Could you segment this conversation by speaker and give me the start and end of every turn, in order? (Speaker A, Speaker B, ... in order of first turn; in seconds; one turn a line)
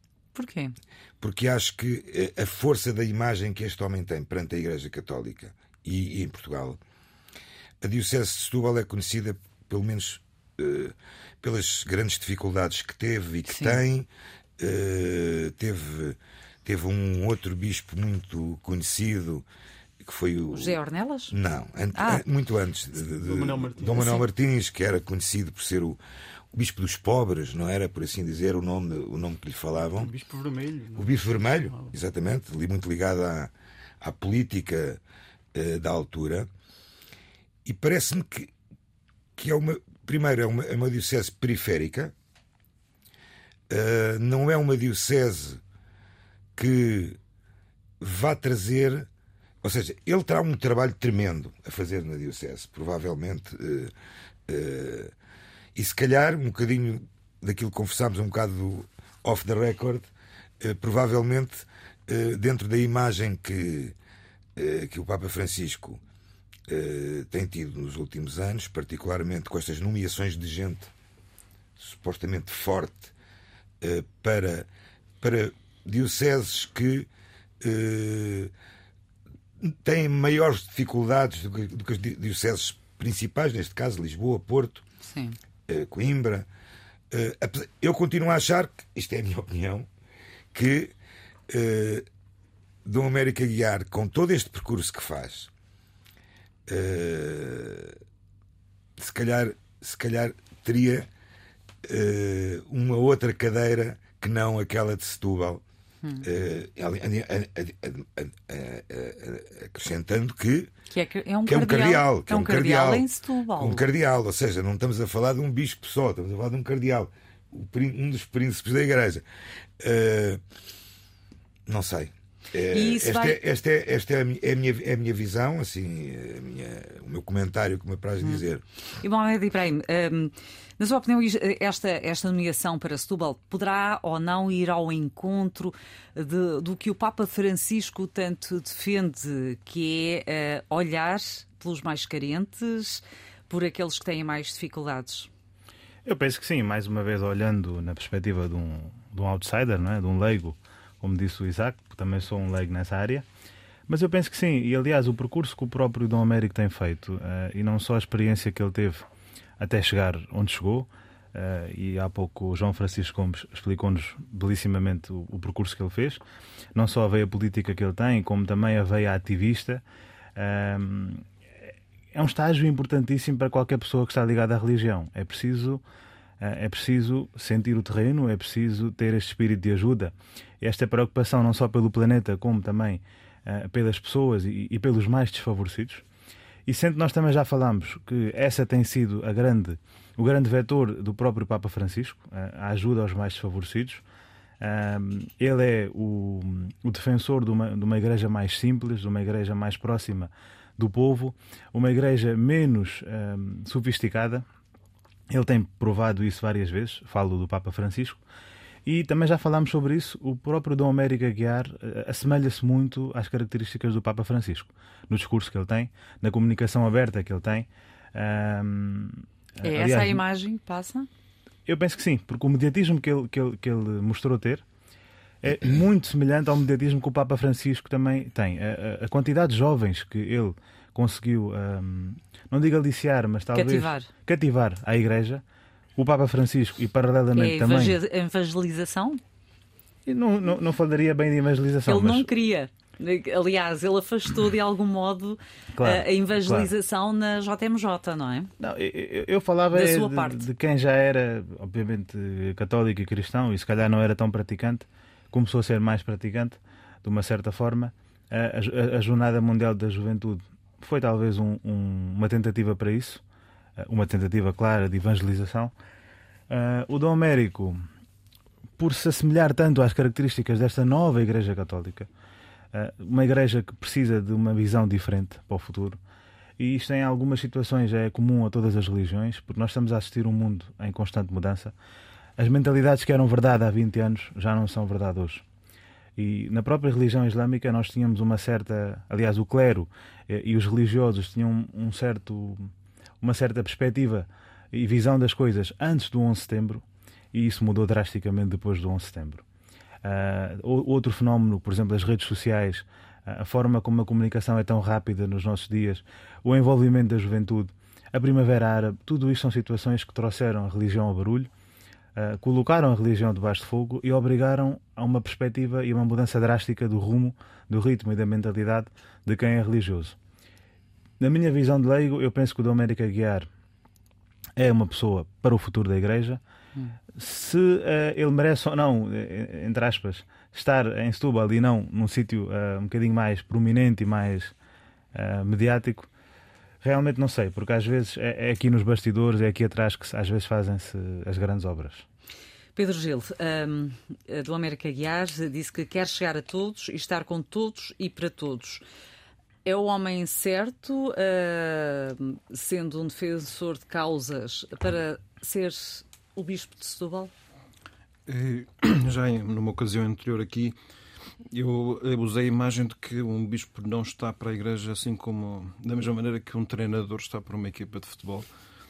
Speaker A: 0.3-0.7
Speaker B: 1.2-6.8
Speaker B: 7.8-14.1
Speaker A: 13.5-13.8
Speaker B: 14.6-19.4
Speaker B: 20.0-20.8
Speaker A: 20.5-21.4
Speaker B: 21.3-26.0
Speaker A: 21.9-22.2
Speaker C: 23.0-24.2
Speaker B: 26.5-30.1
Speaker C: 29.9-31.9
Speaker B: 31.0-35.0
Speaker B: 35.5-36.5
Speaker B: 37.6-38.5
Speaker B: 39.4-42.1
Speaker B: 43.7-45.6
Speaker B: 46.6-47.2
Speaker B: 48.0-49.1
Speaker B: 49.6-53.9
Speaker B: 54.5-55.1
Speaker B: 55.8-60.1
Speaker B: 60.6-64.0
Speaker B: 64.6-66.0
Speaker B: 66.7-70.9
Speaker B: 71.8-73.1
Speaker B: 73.8-74.7
Speaker B: 75.2-77.1
Speaker B: 77.6-78.5
Speaker B: 79.6-84.8
Speaker A: 85.0-85.4
Speaker B: 85.7-86.5
Speaker B: 87.1-89.9
Speaker B: 90.5-91.0
Speaker B: 91.5-92.0
Speaker B: 92.8-95.5
Speaker B: 96.7-98.0
Speaker B: 99.0-101.1
Speaker B: 101.8-105.6
Speaker B: 106.2-110.7
Speaker A: 110.9-113.8
Speaker B: 111.5-113.1
Speaker B: 113.6-119.2
Speaker B: 119.8-120.4
Speaker B: 121.7-128.6
Speaker A: 122.7-123.4
Speaker A: 129.0-145.3
Speaker D: 146.1-153.3
Speaker D: 153.9-159.1
Speaker D: 159.6-166.2
Speaker D: 166.7-169.8
Speaker D: 170.4-171.2
Speaker D: 172.1-175.8
Speaker D: 176.4-186.0
Speaker D: 186.7-194.0
Speaker D: 194.6-204.4
Speaker D: 205.3-208.2
Speaker D: 208.9-220.2
Speaker A: 219.6-221.1
Speaker D: 221.7-224.6
Speaker D: 225.4-235.4
Speaker A: 233.5-234.1
Speaker D: 236.0-238.0
Speaker A: 237.3-239.2
Speaker D: 240.1-242.3
Speaker A: 241.9-248.5
Speaker D: 245.8-246.7
Speaker D: 248.6-263.2
Speaker A: 249.7-250.4
Speaker D: 263.8-265.7
Speaker D: 266.5-267.8
Speaker D: 268.8-272.1
Speaker D: 272.7-276.0
Speaker D: 276.6-281.8
Speaker D: 282.4-285.4
Speaker D: 286.2-299.4
Speaker D: 300.0-311.5
Speaker D: 312.2-320.2
Speaker D: 321.2-323.5
Speaker D: 324.6-326.4
Speaker D: 327.1-334.5
Speaker D: 335.1-336.1
Speaker D: 336.8-342.1
Speaker A: 342.8-348.8
Speaker A: 349.6-357.3
Speaker E: 358.3-360.8
Speaker E: 361.5-368.5